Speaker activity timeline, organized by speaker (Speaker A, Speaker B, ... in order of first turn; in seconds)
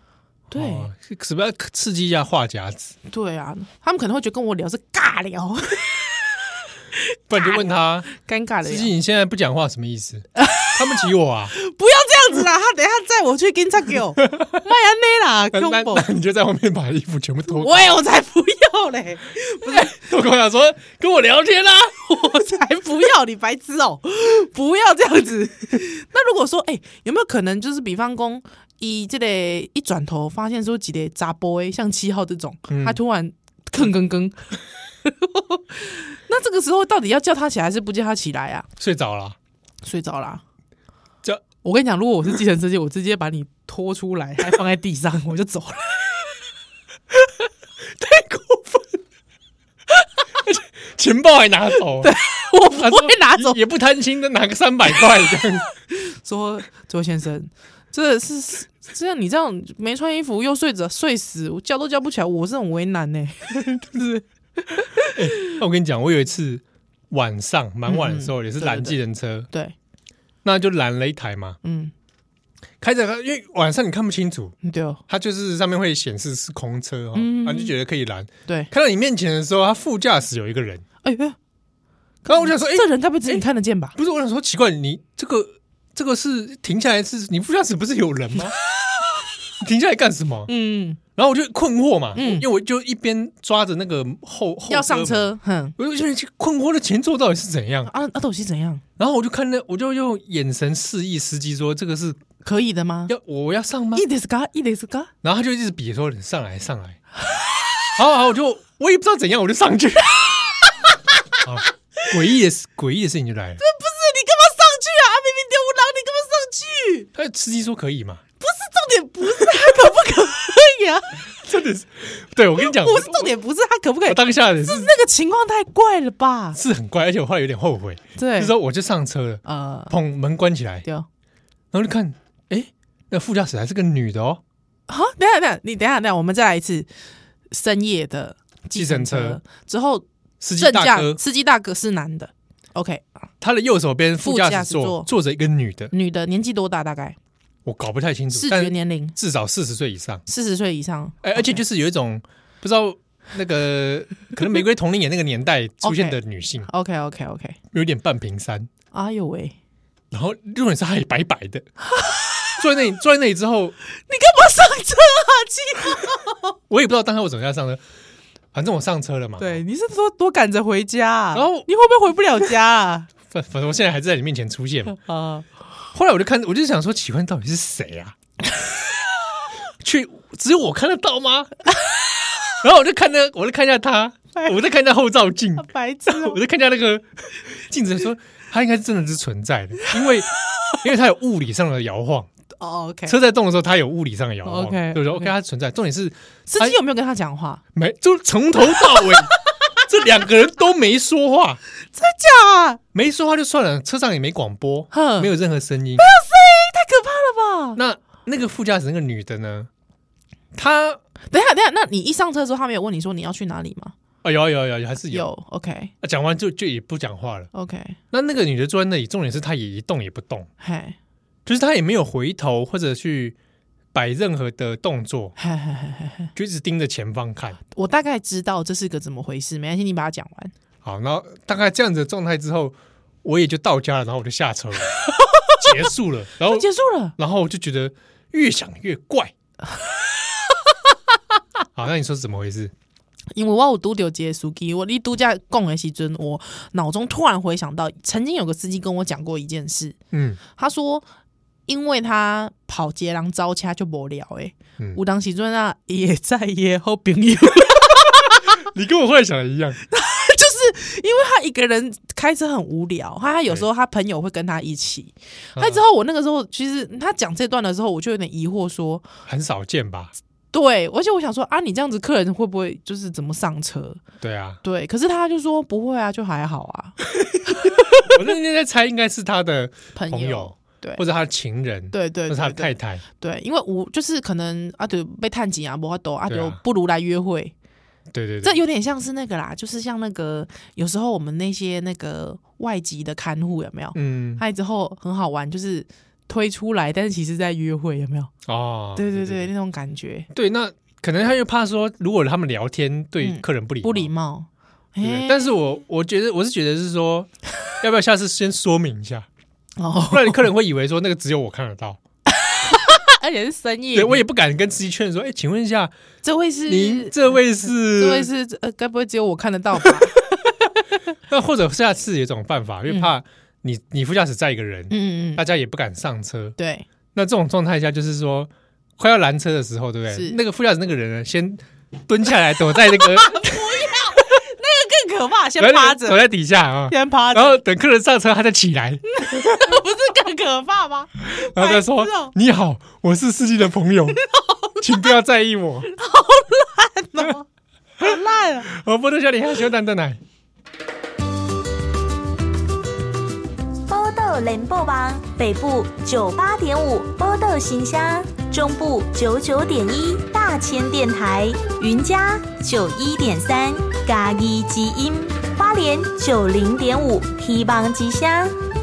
Speaker A: 0.5-0.9, 3.1-6.2, 6.9-8.9, 10.4-10.8, 11.5-16.1, 17.5-19.9, 22.1-38.7, 39.8-40.4, 41.6-46.2, 48.0-48.8, 52.0-53.6, 55.9-65.5, 67.8-69.0, 71.6-71.9, 74.6-75.0, 77.1-77.7, 81.0-81.4, 82.2-84.0, 90.5-91.0, 92.1-92.5, 94.7-95.7, 97.9-98.8, 102.4-103.1, 103.9-105.1, 110.6-110.9, 113.6-117.1, 118.4-121.3, 122.6-126.6, 128.2-128.5, 129.4-129.9, 134.9-136.9, 137.5-140.0, 140.6-143.0, 144.2-145.1, 145.9-147.2, 148.3-149.2, 150.2-151.6, 155.8-157.6, 158.9-159.6, 161.9-162.6, 164.1-166.5, 169.4-173.1, 175.0-175.4, 185.6-186.4, 192.6-193.2, 194.4-195.3, 196.5-197.6, 201.9-202.8, 204.9-205.3, 206.0-207.8, 211.3-213.9, 215.1-215.9, 217.5-218.0, 220.6-221.0, 225.4-226.3, 227.7-230.5, 235.1-235.8, 236.5-237.2, 243.3-250.0, 250.5-251.1, 251.7-258.6, 259.9-269.1, 270.5-274.0, 274.6-278.2, 279.9-281.0, 281.9-287.5, 288.4-298.3, 298.9-300.3, 303.2-305.5, 309.8-310.4, 312.3-314.2, 316.2-320.5, 324.9-325.4, 326.6-326.9, 330.1-330.4, 332.9-336.2, 336.9-337.6, 339.1-342.3, 344.1-345.1, 345.9-347.4, 348.0-348.7
Speaker B: 0.5-2.9, 7.3-8.1, 8.6-11.5, 15.5-17.9, 19.6-22.1, 32.7-33.0, 38.8-39.4, 50.4-52.1, 52.7-55.6, 65.1-69.5, 70.4-71.6, 72.8-74.5, 75.1-80.8, 82.3-83.4, 84.0-88.5, 89.6-90.5, 91.2-97.9, 99.0-102.2, 103.1-104.0, 105.2-107.0, 107.9-110.3, 111.4-113.6, 117.1-118.2, 121.4-123.3, 124.0-124.9, 126.5-130.9, 131.7-134.4, 138.7-139.4, 140.4-141.2, 143.4-145.9, 147.7-150.2, 151.2-156.7, 157.7-158.7, 160.1-161.7, 162.6-163.7, 166.7-167.8, 168.5-169.6, 171.3-171.7, 173.3-175.0, 175.9-178.1, 179.8-181.6, 182.5-192.3, 193.1-196.8, 197.7-201.6, 202.9-206.1, 207.7-209.7, 210.5-211.0, 214.2-215.3, 216.0-217.5, 218.1-220.5, 221.4-223.3, 223.9-225.3, 226.3-227.6, 230.8-235.0, 235.5-239.3, 241.7-242.7, 250.1-250.4, 258.1-259.8, 265.6-265.8, 269.3-270.1, 274.2-274.6, 277.2-283.0, 286.3-286.6, 288.1-288.6, 293.9-294.4, 298.4-299.5, 300.3-304.1, 305.0-309.3, 310.1-312.0, 313.9-315.9, 316.7-318.3, 321.3-326.6, 327.1-334.2, 335.6-339.8, 341.3-344.2, 344.8-345.9, 348.6-350.2
Speaker C: 353.9-368.6